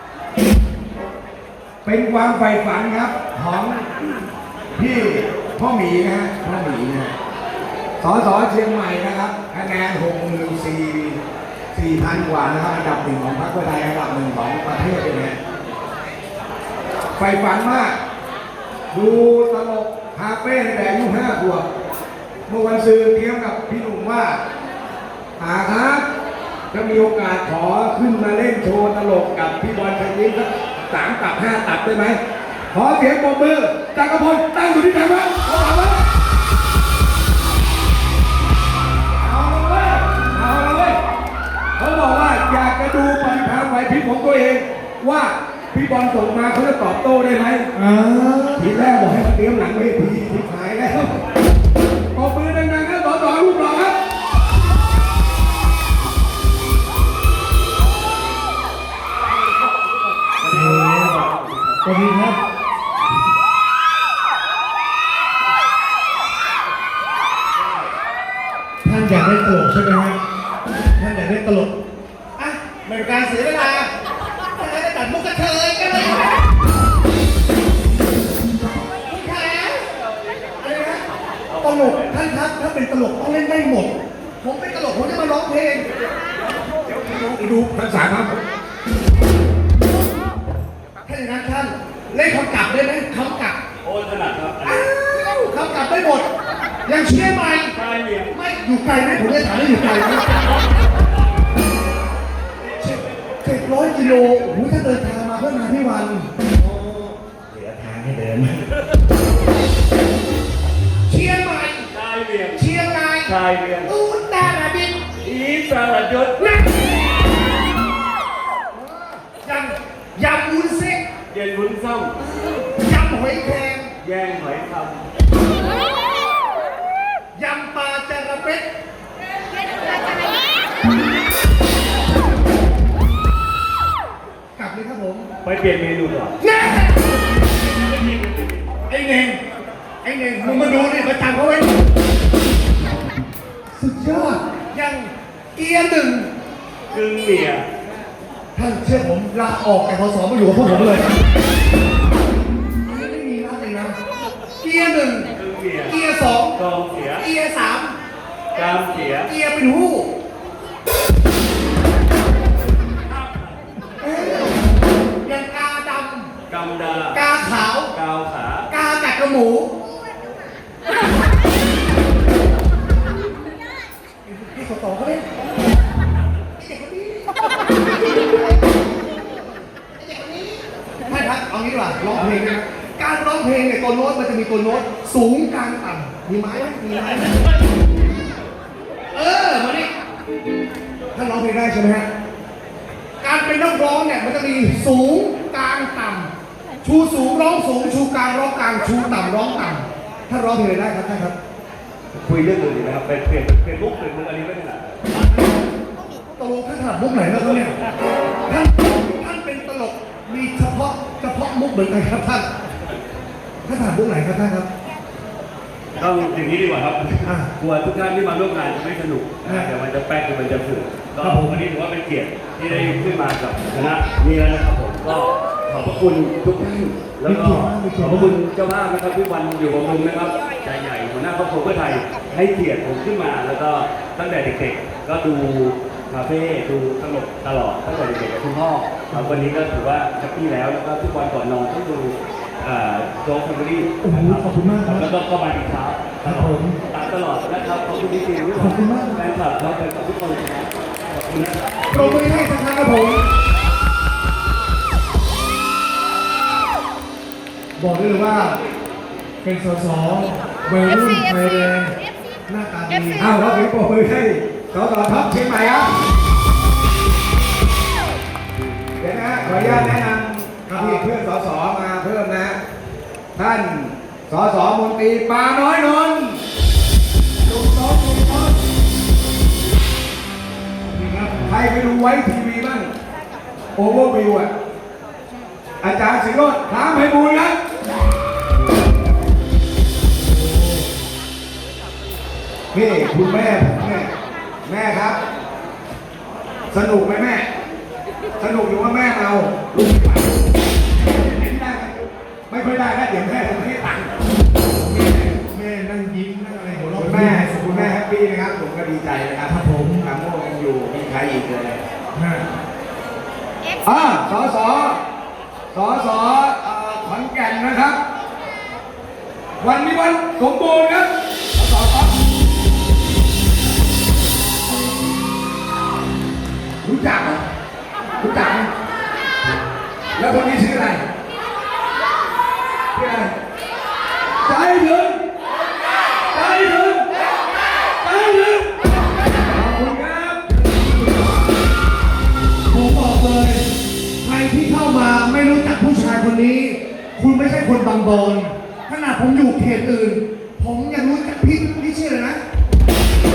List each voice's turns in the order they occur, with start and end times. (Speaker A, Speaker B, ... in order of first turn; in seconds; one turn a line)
Speaker A: 1.8-3.9
Speaker A: 4.7-7.1
Speaker A: 8.0-11.2
Speaker A: 11.7-15.4
Speaker A: 17.1-18.0
Speaker A: 18.9-21.7
Speaker A: 22.5-24.4
Speaker A: 25.4-26.1
Speaker A: 26.7-32.2
Speaker A: 32.7-36.0
Speaker A: 39.2-41.0
Speaker A: 41.8-47.7
Speaker B: 47.7-48.7
Speaker A: 48.6-51.2
Speaker A: 52.1-54.0
Speaker C: 60.2-61.9
Speaker B: 60.5-61.2
Speaker B: 61.8-62.4
Speaker B: 68.8-70.2
Speaker B: 71.0-71.7
Speaker B: 72.4-73.9
Speaker B: 74.5-76.4
Speaker B: 79.0-79.8
Speaker B: 80.6-81.0
Speaker C: 81.5-82.2
Speaker B: 81.6-85.9
Speaker A: 87.0-88.4
Speaker B: 91.0-93.6
Speaker C: 93.8-94.9
Speaker B: 94.6-96.3
Speaker B: 96.8-97.7
Speaker C: 97.7-98.3
Speaker B: 98.3-100.3
Speaker B: 102.7-106.3
Speaker C: 106.6-107.1
Speaker A: 107.5-108.6
Speaker B: 111.0-111.9
Speaker C: 111.9-112.7
Speaker B: 112.5-113.3
Speaker C: 113.2-113.9
Speaker B: 113.8-115.0
Speaker C: 115.2-117.1
Speaker B: 118.7-121.0
Speaker C: 121.3-122.2
Speaker B: 122.6-123.9
Speaker C: 124.0-125.0
Speaker B: 127.3-128.7
Speaker B: 134.6-135.3
Speaker C: 135.4-136.3
Speaker B: 136.4-137.1
Speaker B: 138.9-139.4
Speaker B: 140.0-141.7
Speaker B: 143.7-146.3
Speaker C: 146.9-147.7
Speaker B: 148.5-151.1
Speaker B: 152.8-153.9
Speaker B: 154.6-155.3
Speaker C: 155.3-155.9
Speaker B: 155.8-156.5
Speaker C: 156.5-157.2
Speaker B: 157.2-157.9
Speaker C: 158.5-159.3
Speaker B: 159.2-160.1
Speaker C: 163.1-163.5
Speaker B: 164.0-164.6
Speaker B: 165.2-166.3
Speaker C: 166.5-167.3
Speaker B: 167.1-167.9
Speaker C: 167.8-168.7
Speaker B: 168.7-169.7
Speaker B: 174.2-175.2
Speaker B: 176.6-177.3
Speaker B: 178.1-179.2
Speaker B: 179.9-187.3
Speaker B: 189.1-189.9
Speaker B: 191.1-192.1
Speaker B: 193.2-196.3
Speaker B: 196.8-201.4
Speaker C: 202.1-204.9
Speaker B: 206.3-207.7
Speaker B: 208.5-212.5
Speaker B: 213.6-214.7
Speaker C: 215.9-252.2
Speaker B: 217.2-217.5
Speaker B: 219.4-219.7
Speaker B: 221.2-221.6
Speaker B: 222.7-223.0
Speaker B: 227.2-228.3
Speaker B: 239.1-239.5
Speaker B: 244.0-245.1
Speaker B: 246.2-246.8
Speaker B: 248.5-249.2
Speaker B: 251.9-253.2
Speaker B: 257.8-258.6
Speaker B: 259.4-261.9
Speaker B: 262.5-263.2
Speaker A: 263.1-265.9
Speaker A: 269.0-272.6
Speaker B: 270.7-271.1
Speaker A: 273.3-276.4
Speaker A: 277.4-278.6
Speaker B: 280.9-281.3
Speaker A: 281.4-282.9
Speaker A: 283.8-284.5
Speaker A: 285.8-287.6
Speaker B: 290.4-290.8
Speaker A: 292.7-294.1
Speaker A: 294.6-295.2
Speaker A: 296.7-297.5
Speaker A: 298.4-300.4
Speaker A: 301.0-302.0
Speaker A: 302.5-304.1
Speaker A: 304.7-305.3
Speaker B: 305.4-307.9
Speaker A: 306.9-311.8
Speaker B: 309.5-310.0
Speaker B: 312.1-312.4
Speaker A: 313.8-315.0
Speaker A: 315.7-318.0
Speaker A: 319.6-322.2
Speaker A: 326.8-327.4
Speaker A: 328.2-328.7
Speaker A: 330.1-331.0
Speaker A: 332.9-333.3
Speaker A: 334.4-335.2
Speaker A: 336.3-337.1
Speaker A: 338.0-338.7
Speaker A: 339.5-341.5
Speaker B: 342.7-343.7
Speaker B: 344.2-352.4